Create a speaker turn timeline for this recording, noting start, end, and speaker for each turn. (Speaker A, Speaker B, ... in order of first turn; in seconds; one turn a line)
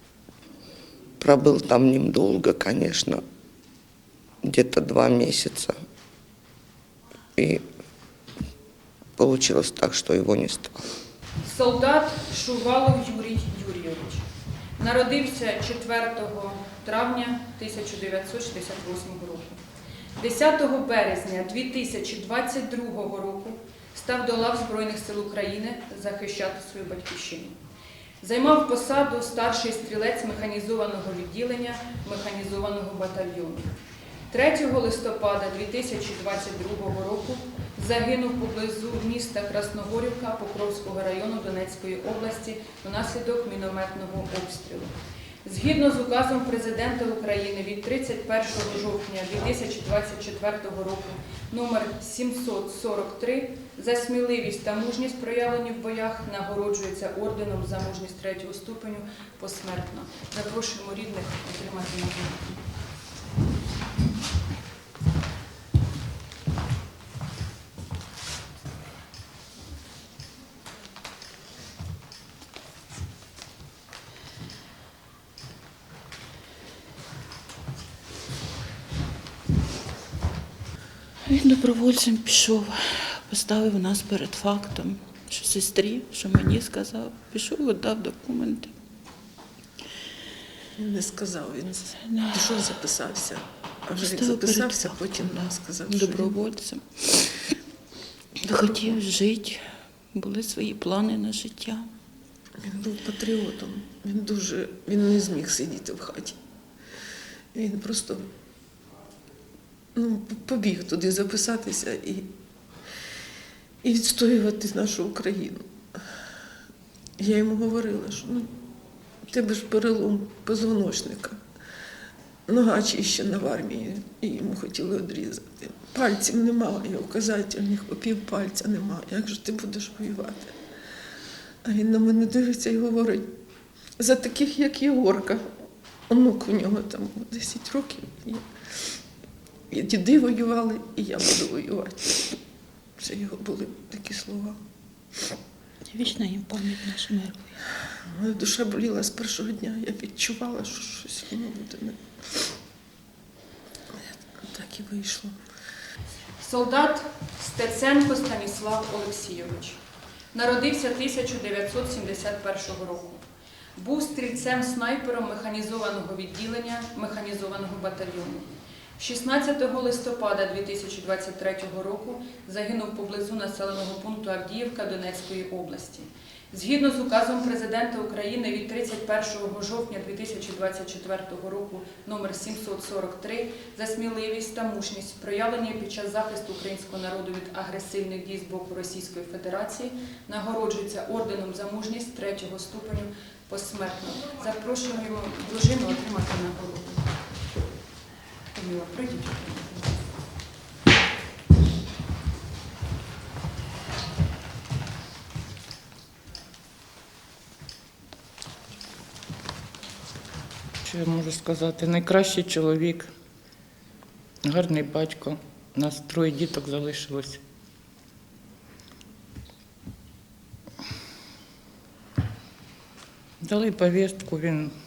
Speaker A: 1.2-3.2
Speaker A: 4.4-5.8
Speaker A: 7.3-7.6
Speaker A: 9.2-10.8
Speaker B: 11.4-14.2
Speaker B: 14.8-19.6
Speaker B: 20.2-27.6
Speaker B: 28.2-33.7
Speaker B: 34.3-44.9
Speaker B: 45.4-62.6
Speaker C: 81.2-88.7
Speaker D: 90.8-96.4
Speaker C: 92.0-92.7
Speaker C: 93.9-97.5
Speaker C: 98.4-99.6
Speaker C: 100.1-101.8
Speaker D: 102.6-106.3
Speaker D: 107.5-108.2
Speaker D: 109.9-112.3
Speaker D: 113.8-115.6
Speaker D: 117.2-118.5
Speaker D: 119.2-121.4
Speaker D: 122.5-130.5
Speaker D: 131.6-133.3
Speaker D: 134.0-135.4
Speaker D: 136.1-138.4
Speaker D: 139.7-142.3
Speaker D: 143.0-144.6
Speaker C: 145.9-147.5
Speaker D: 148.0-152.4
Speaker D: 153.9-155.3
Speaker B: 156.4-159.8
Speaker B: 160.3-163.2
Speaker B: 163.8-197.1
Speaker B: 198.5-200.1
Speaker E: 210.8-213.1
Speaker E: 214.4-217.4
Speaker E: 223.4-224.7